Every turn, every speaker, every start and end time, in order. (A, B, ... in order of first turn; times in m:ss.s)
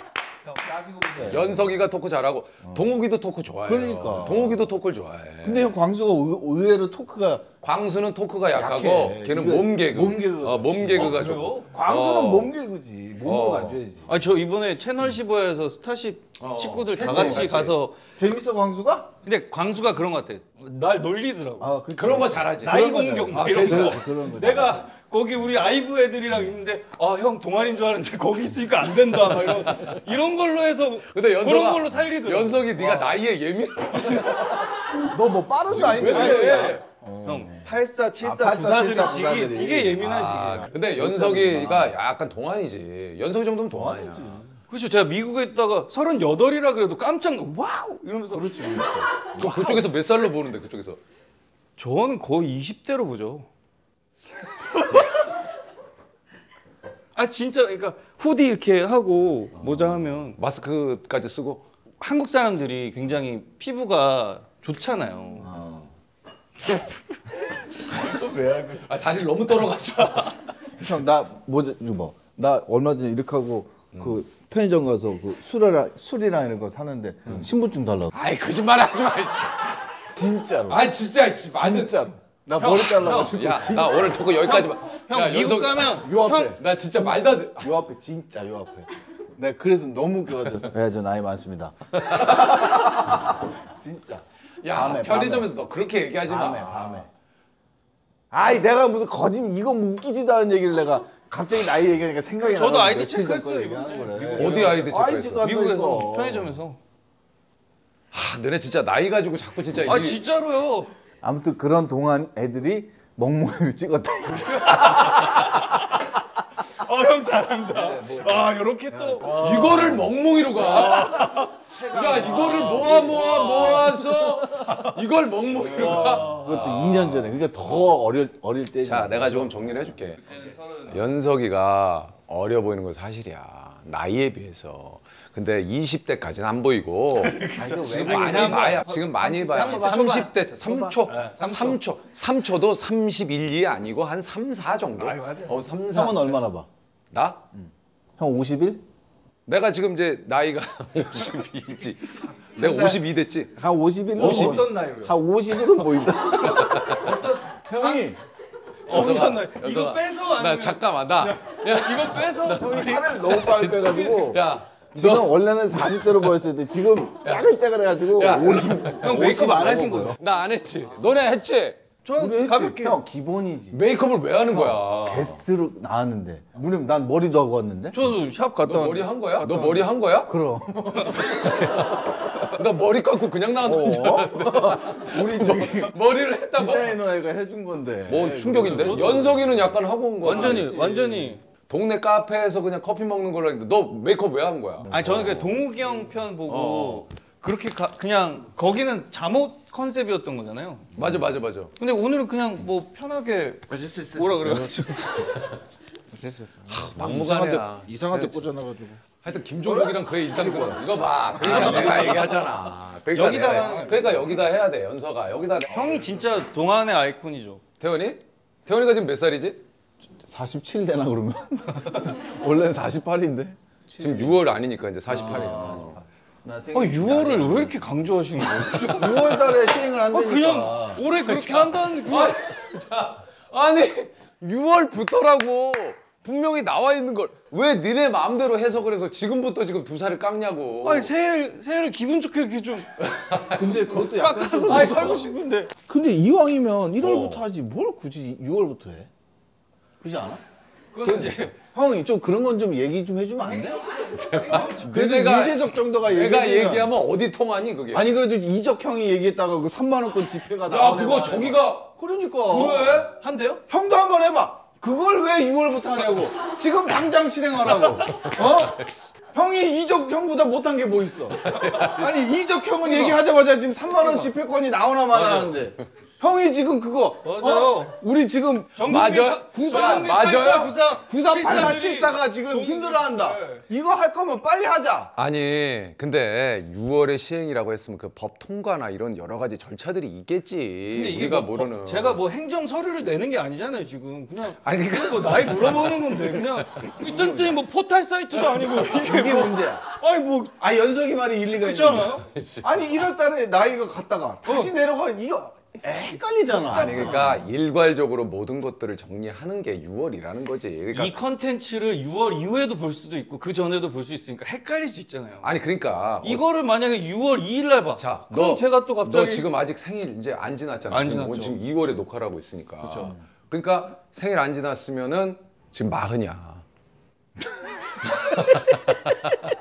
0:00.4-0:01.8 A
0:01.2-0:05.8 B
0:03.6-0:04.7 A
0:05.4-0:07.5 A
0:07.6-0:12.5 B
0:08.5-0:14.1 A
0:11.0-0:11.7 C
0:13.2-0:13.8 B
0:14.1-0:18.0 C
0:16.4-0:17.8 B
0:17.0-0:17.5 A
0:18.2-0:19.1 A
0:19.2-0:21.8 C
0:21.6-0:24.8 A
0:22.0-0:24.0 B
0:22.6-0:33.1 C
0:29.5-0:30.0 B
0:31.1-0:34.7 B
0:34.9-0:42.0 A
0:35.7-0:36.8 B
0:36.0-0:40.7 C
0:40.0-0:44.4 B
0:43.7-0:44.5 A
0:44.7-0:49.8 C
0:48.3-0:49.1 A
0:49.4-0:51.0 B
0:51.8-0:53.5 C
0:54.7-0:55.2 C
0:57.2-1:00.4 C
0:59.6-1:01.6 B
1:02.0-1:05.5 C
1:05.4-1:05.9 A
1:08.1-1:08.8 A
1:08.8-1:10.5 B
1:10.8-1:18.1 A
1:18.1-1:19.8 B
1:20.1-1:20.8 A
1:20.7-1:22.1 B
1:21.5-1:24.2 A
1:22.6-1:23.3 C
1:22.6-1:27.7 B
1:24.4-1:26.6 C
1:26.0-1:26.6 A
1:27.6-1:35.5 A
1:32.0-1:32.3 B
1:34.6-1:37.1 B
1:36.2-1:37.1 A
1:38.3-1:46.6 A
1:42.4-1:46.8 C
1:44.4-1:45.4 B
1:48.1-1:50.2 B
1:49.8-1:50.9 C
1:51.2-1:55.6 A
1:54.7-1:55.3 C
1:56.6-2:00.0 C
1:57.7-2:00.1 A
1:59.2-2:08.0 B
2:00.7-2:01.7 C
2:01.7-2:04.4 A
2:04.6-2:05.0 C
2:05.6-2:06.8 C
2:05.7-2:09.7 A
2:08.8-2:10.3 B
2:10.2-2:11.0 C
2:10.9-2:26.4 B
2:17.2-2:18.9 C
2:17.5-2:21.0 A
2:19.5-2:20.3 C
2:21.1-2:21.8 C
2:25.0-2:26.7 A
2:27.1-2:27.4 B
2:27.6-2:28.8 A
2:29.5-2:33.5 B
2:32.6-2:33.0 A
2:33.5-2:38.2 A
2:34.2-2:35.2 C
2:34.2-2:34.6 B
2:36.4-2:37.2 B
2:36.5-2:38.1 C
2:38.9-2:43.1 C
2:38.9-2:46.4 B
2:42.6-2:50.2 A
2:48.1-2:51.8 B
2:49.0-2:50.2 C
2:52.0-2:53.0 C
2:52.2-2:53.8 A
2:53.7-2:55.4 B
2:54.5-2:58.0 A
2:57.9-2:59.9 C
2:58.6-3:00.4 B
3:00.3-3:02.1 A
3:01.0-3:07.0 B
3:03.6-3:06.0 A
3:06.6-3:09.4 A
3:08.1-3:10.9 B
3:08.7-3:09.3 C
3:10.2-3:11.4 C
3:10.2-3:11.4 A
3:11.7-3:15.6 B
3:14.9-3:15.4 A
3:14.9-3:20.9 C
3:16.5-3:17.1 B
3:21.0-3:21.7 B
3:21.8-3:24.9 C
3:23.7-3:25.3 A
3:24.5-3:25.6 B
3:26.1-3:29.0 A
3:26.7-3:28.5 B
3:29.2-3:36.0 B
3:29.6-3:30.9 A
3:31.4-3:32.3 C
3:31.4-3:32.0 A
3:33.1-3:34.1 C
3:33.7-3:34.2 A
3:35.7-3:37.6 C
3:37.8-3:39.6 B
3:40.2-3:44.4 A
3:44.0-3:46.0 B
3:45.1-3:45.8 C
3:45.1-3:47.8 A
3:46.7-3:49.6 C
3:48.8-3:51.0 A
3:50.1-3:52.4 C
3:51.2-4:01.1 B
4:00.8-4:02.9 C
4:03.0-4:03.8 B
4:03.5-4:05.2 A
4:03.9-4:05.7 C
4:04.7-4:05.3 B
4:05.9-4:09.1 A
4:07.0-4:07.4 B
4:10.0-4:10.4 A
4:10.9-4:11.6 C
4:11.0-4:13.8 A
4:11.1-4:11.4 B
4:13.4-4:14.9 C
4:14.1-4:18.1 B
4:14.8-4:16.9 A
4:17.9-4:23.1 A
4:20.7-4:21.9 B
4:22.5-4:23.2 B
4:23.2-4:23.6 C
4:23.7-4:28.8 A
4:28.1-4:28.9 B
4:29.3-4:38.9 A
4:31.4-4:32.2 B
4:35.1-4:35.5 C
4:37.2-4:38.0 C
4:38.8-4:43.6 C
4:38.8-4:40.8 B
4:39.7-4:40.1 A
4:41.1-4:45.1 A
4:45.2-4:52.2 B
4:50.9-5:00.5 C
4:54.6-4:56.9 B
4:57.0-4:57.6 A
4:58.5-4:59.1 B
4:58.9-4:59.9 A
5:00.5-5:07.4 A
5:01.6-5:02.3 C
5:02.3-5:02.7 B
5:04.5-5:04.7 C
5:06.7-5:11.1 B
5:06.7-5:07.4 C
5:10.9-5:15.5 C
5:15.4-5:16.4 B
5:16.2-5:19.5 C
5:18.0-5:26.6 B
5:20.9-5:21.6 C
5:22.8-5:23.2 C
5:28.1-5:29.2 B